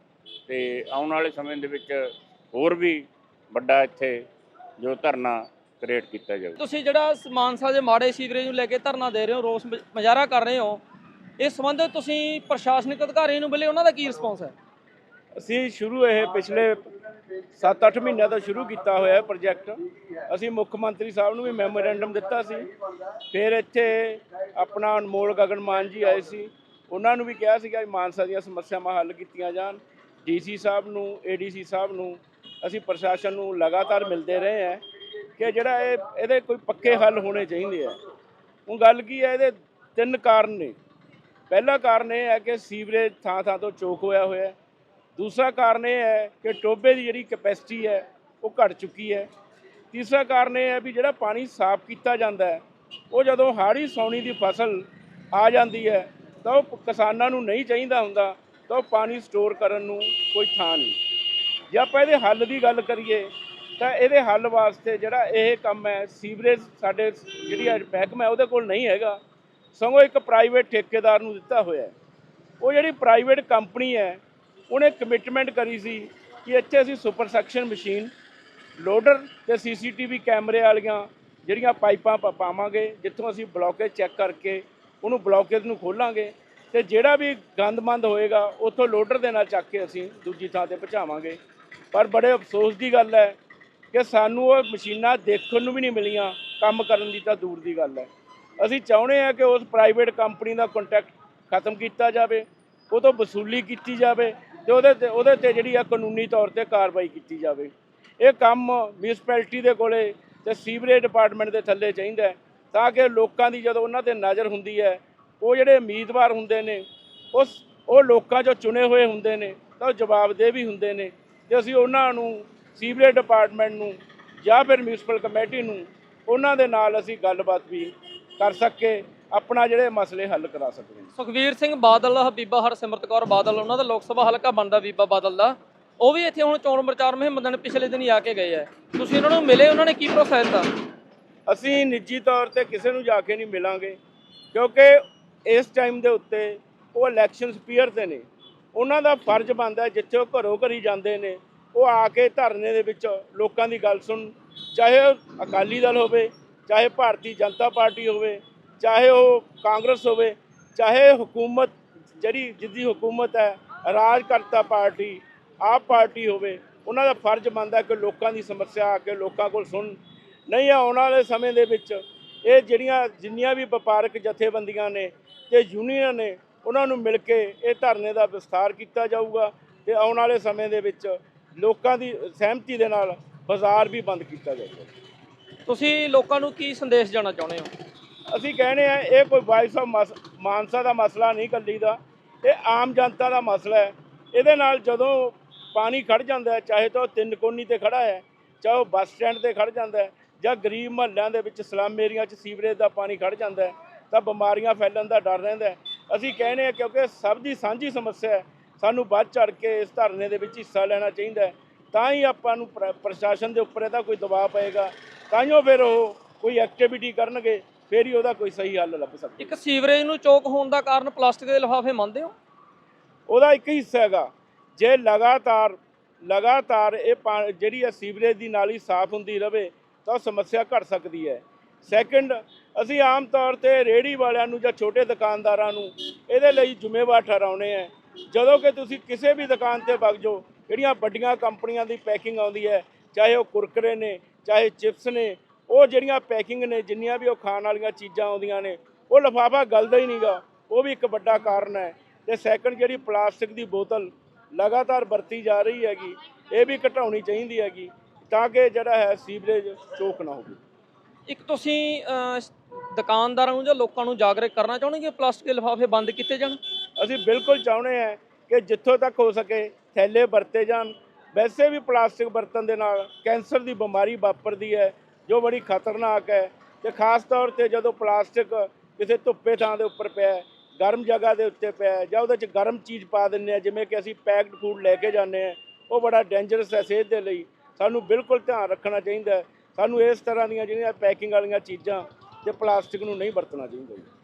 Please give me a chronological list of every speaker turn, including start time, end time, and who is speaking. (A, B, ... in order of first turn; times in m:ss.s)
0:00.5-0:04.2 A
0:04.8-0:06.6 A
0:06.6-0:10.8 B
0:11.4-0:14.5 B
0:15.4-0:16.9 C
0:17.6-0:19.8 C
0:20.3-0:22.7 C
0:23.3-0:34.8 C
0:35.4-0:38.0 C
0:38.7-0:40.7 C
0:41.5-0:44.5 C
0:45.2-0:49.3 C
0:49.9-1:01.0 C
1:01.7-1:09.2 C
1:09.7-1:11.9 C
1:12.6-1:18.1 C
1:18.8-1:31.4 C
1:31.9-1:33.4 C
1:33.9-1:38.1 C
1:38.6-2:11.1 C
2:11.2-2:20.7 B
2:21.5-2:24.0 C
2:24.5-2:50.0 C
2:50.5-3:04.9 C
3:05.6-3:07.7 B
3:08.3-3:39.5 C
3:39.4-3:42.3 B
3:43.3-4:20.6 C
4:21.3-4:26.6 B
4:27.0-4:54.1 C